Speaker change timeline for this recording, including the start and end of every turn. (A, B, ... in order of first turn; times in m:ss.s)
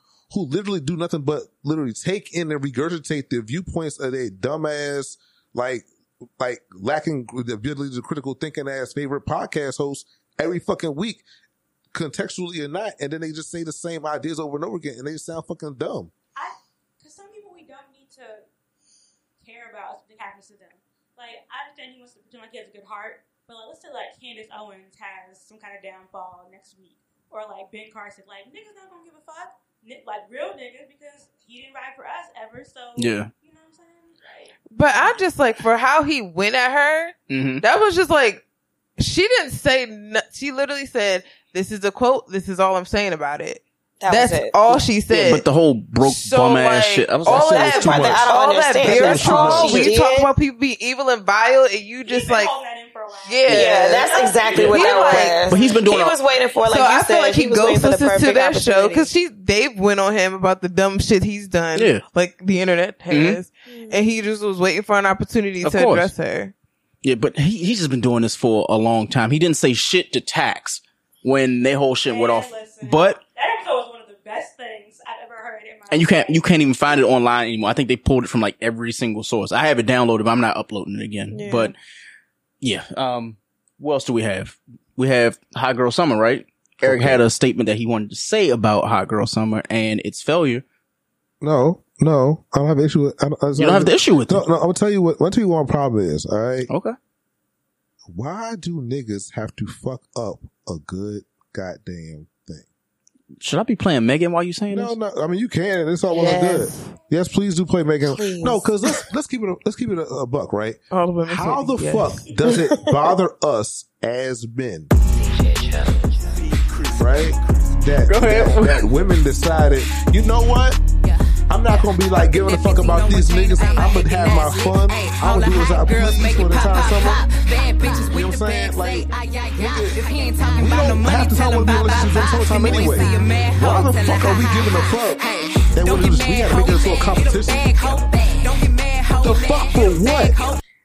0:00.3-0:05.8 A
0:06.4-0:11.2 A
0:11.9-0:16.1 A
0:16.4-0:18.4 B
0:19.4-0:35.2 B
0:33.0-0:33.3 C
0:34.7-0:38.4 D
0:37.3-0:37.6 C
0:39.0-0:45.4 D
0:44.0-0:44.8 E
0:45.1-0:48.1 C
0:46.0-0:52.6 D
0:47.2-0:48.2 A
0:47.3-0:50.3 E
0:48.8-0:50.0 A
0:52.0-0:55.7 B
0:53.2-0:55.4 D
0:53.5-0:59.1 E
0:54.5-0:54.8 C
0:55.5-0:56.2 C
0:56.7-1:06.5 D
1:01.7-1:02.0 C
1:03.1-1:03.4 C
1:03.6-1:04.0 E
1:05.6-1:06.1 C
1:07.0-1:13.2 C
1:12.1-1:17.0 B
1:15.9-1:21.7 C
1:21.3-1:21.7 E
1:22.6-1:30.6 C
1:26.8-1:27.2 A
1:31.4-1:36.7 A
1:33.6-1:34.4 C
1:36.7-1:37.0 C
1:38.1-1:42.6 A
1:43.4-1:44.9 C
1:44.7-1:54.9 A
1:46.1-1:46.9 D
1:48.0-1:48.6 E
1:50.9-1:52.3 D
1:52.4-1:53.1 E
1:55.2-1:56.2 E
1:56.9-2:00.8 A
1:58.0-1:58.9 C
2:01.0-2:20.6 F
2:01.5-2:07.2 A
2:07.8-2:17.9 A
2:19.2-2:20.5 A